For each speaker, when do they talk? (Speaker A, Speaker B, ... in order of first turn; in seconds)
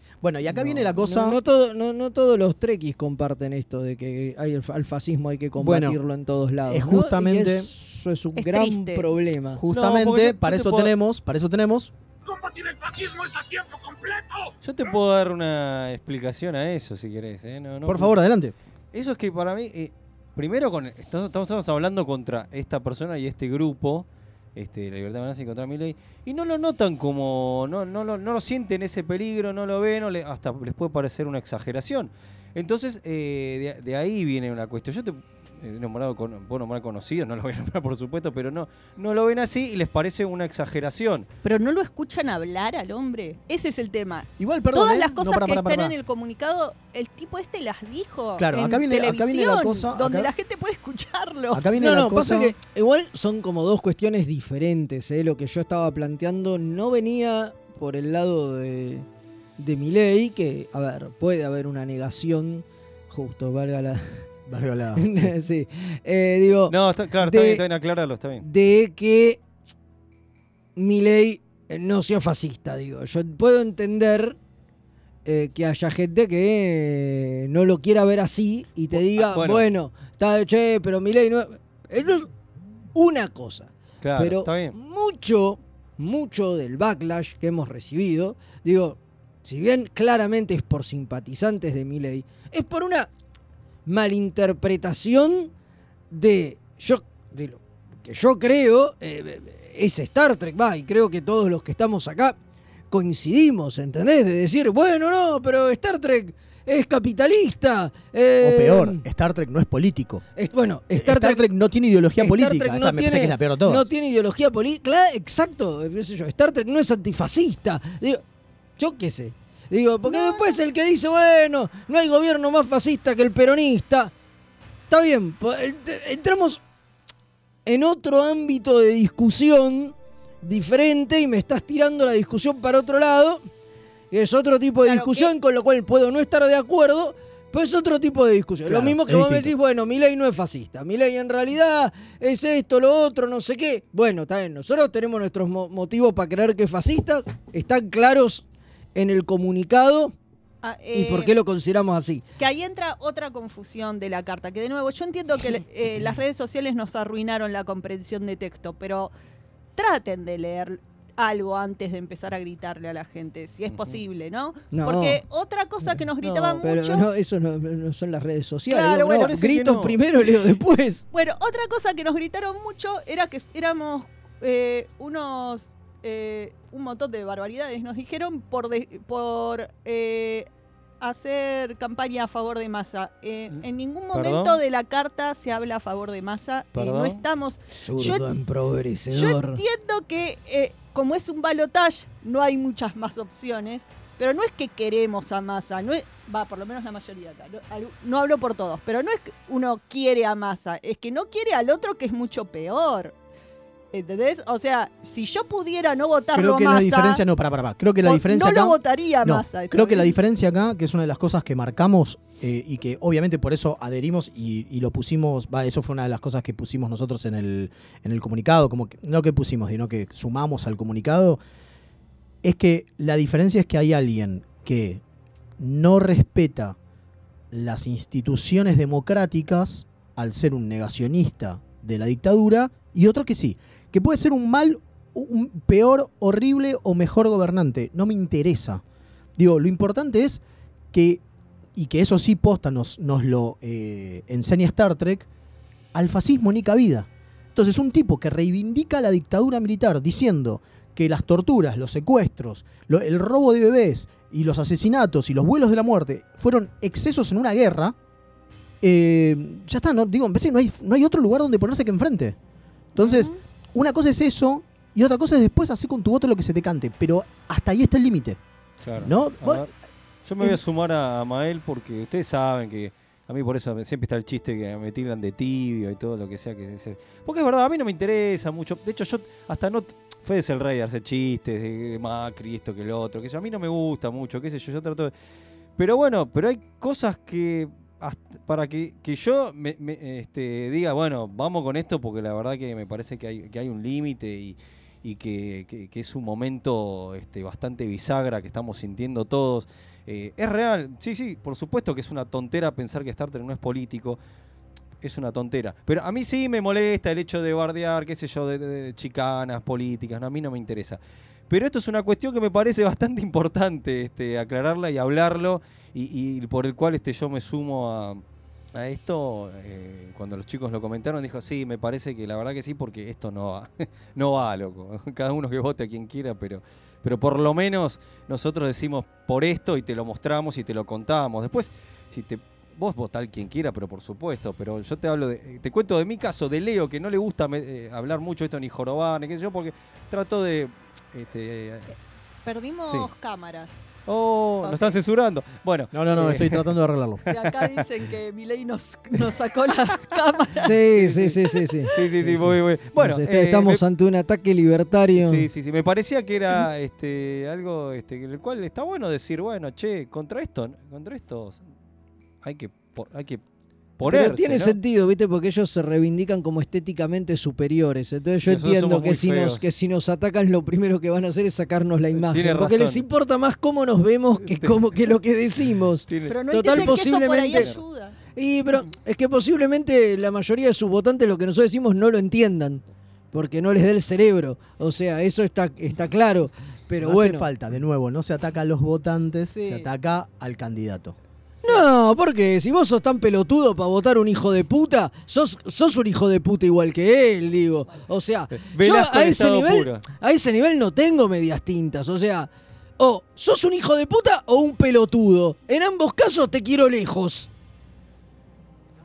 Speaker A: 0.2-1.4, 5.6-6.0, 6.7-7.7, 9.5-11.9, 17.9-18.5, 44.4-45.9, 48.4-50.3, 51.5-52.5, 64.5-65.3, 108.4-110.2, 110.9-113.9, 138.7-139.5, 206.3-221.4, 222.4-225.0, 225.6-226.8, 227.5-238.8, 239.4-241.2, 241.8-245.3, 245.9-257.9, 258.8-262.4, 262.9-268.4, 269.0-269.7, 345.9-347.2, 387.0-391.1
Speaker B: 0.5-9.6, 51.8-59.1, 59.6-64.3, 65.0-67.6, 68.4-69.4, 70.8-74.4, 75.2-82.3, 83.0-93.1, 93.9-95.5, 96.1-102.4, 102.9-109.0, 110.4-111.5, 112.2-118.2, 118.8-124.1, 124.9-126.6, 127.7-133.4, 134.1-150.1, 150.9-152.2, 164.7-165.2, 166.6-171.0, 187.8-189.6, 350.6-355.5, 364.0-377.7, 378.4-387.5, 391.6-407.5
Speaker C: 8.4-9.1, 41.4-51.6, 120.1-120.5, 134.8-135.3, 150.6-151.3, 152.4-159.1, 159.8-167.0, 168.7-169.3, 171.1-180.5, 181.0-188.3, 189.1-203.1, 203.9-207.2, 208.0-210.2, 263.0-263.4, 342.4-343.9, 344.6-345.0, 347.3-350.8, 376.3-378.1, 389.6-389.9
Speaker D: 9.7-10.9, 14.6-18.1, 18.9-41.3, 66.7-68.5, 78.9-79.7, 84.0-84.8, 163.7-164.0, 166.2-166.6, 169.1-170.0, 183.5-184.6, 186.8-187.2, 268.8-269.7, 270.2-285.1, 285.8-304.2, 305.0-318.2, 318.7-341.9, 344.1-346.7, 347.3-347.9, 350.9-353.8, 355.2-361.6, 362.4-363.4, 364.0-364.8, 368.4-369.6, 372.1-373.1, 374.4-375.0, 376.1-377.0, 377.5-377.8, 398.6-400.0
Speaker E: 12.2-14.5